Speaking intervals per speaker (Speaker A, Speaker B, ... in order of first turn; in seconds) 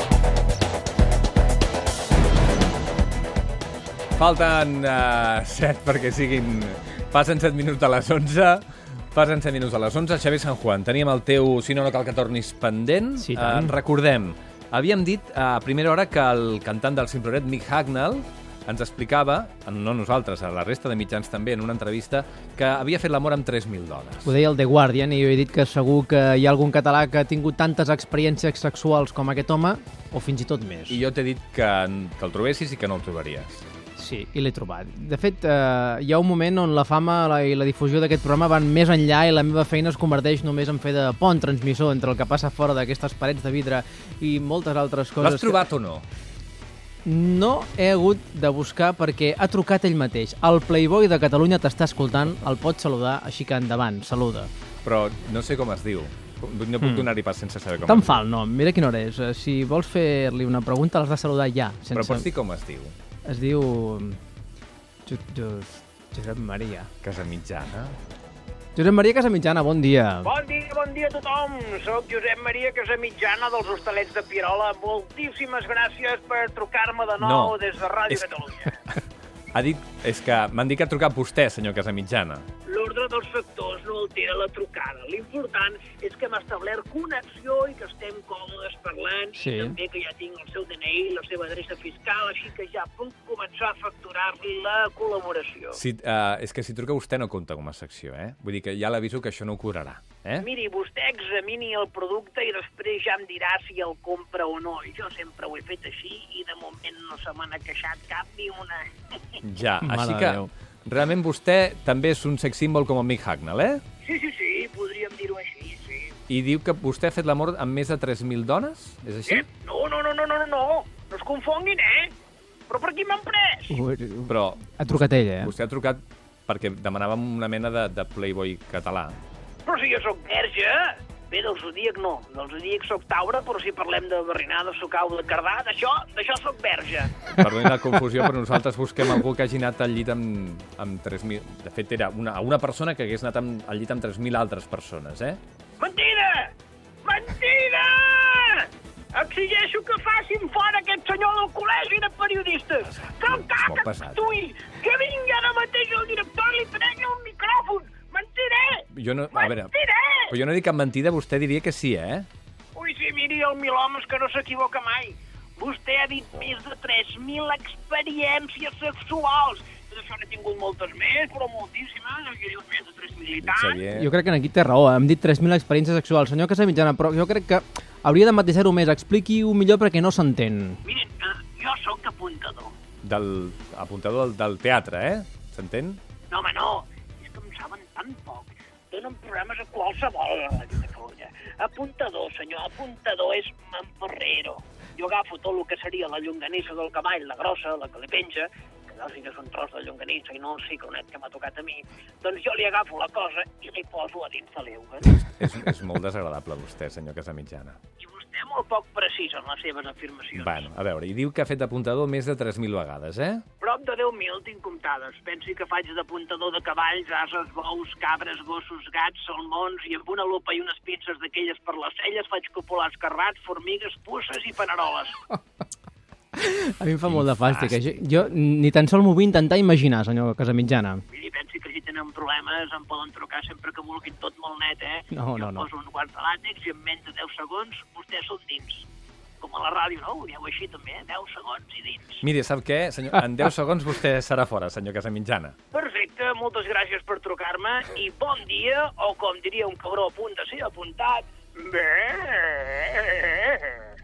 Speaker A: 4.2-24.3, 30.9-33.6, 45.2-46.1, 54.8-58.2, 61.9-63.0, 67.0-68.0, 77.2-77.6, 78.1-79.0, 79.5-82.5, 95.7-100.5, 109.4-113.8, 116.3-119.5, 124.3-129.2, 137.3-145.4, 152.8-154.2, 158.9-159.7, 160.3-162.3, 173.4-174.1, 183.0-186.0, 205.1-207.8, 210.3-213.4, 227.1-227.8, 242.2-245.6
Speaker B: 13.2-13.8, 24.2-31.0, 34.0-45.6, 47.0-54.5, 56.8-57.1, 57.9-62.3, 63.3-64.2, 65.1-66.9, 68.8-70.3, 89.4-89.8, 109.8-110.5, 123.7-125.5, 173.9-180.8, 226.3-231.0, 235.1-235.7
Speaker C: 70.2-78.8, 82.7-95.8, 100.4-109.4, 114.0-116.2, 119.3-122.1, 122.7-123.8, 129.7-137.2, 145.8-146.5, 147.0-160.3, 162.8-173.8, 180.8-182.8, 186.3-205.1, 208.0-210.7, 213.6-225.2, 231.1-238.9, 239.4-242.2, 245.7-253.8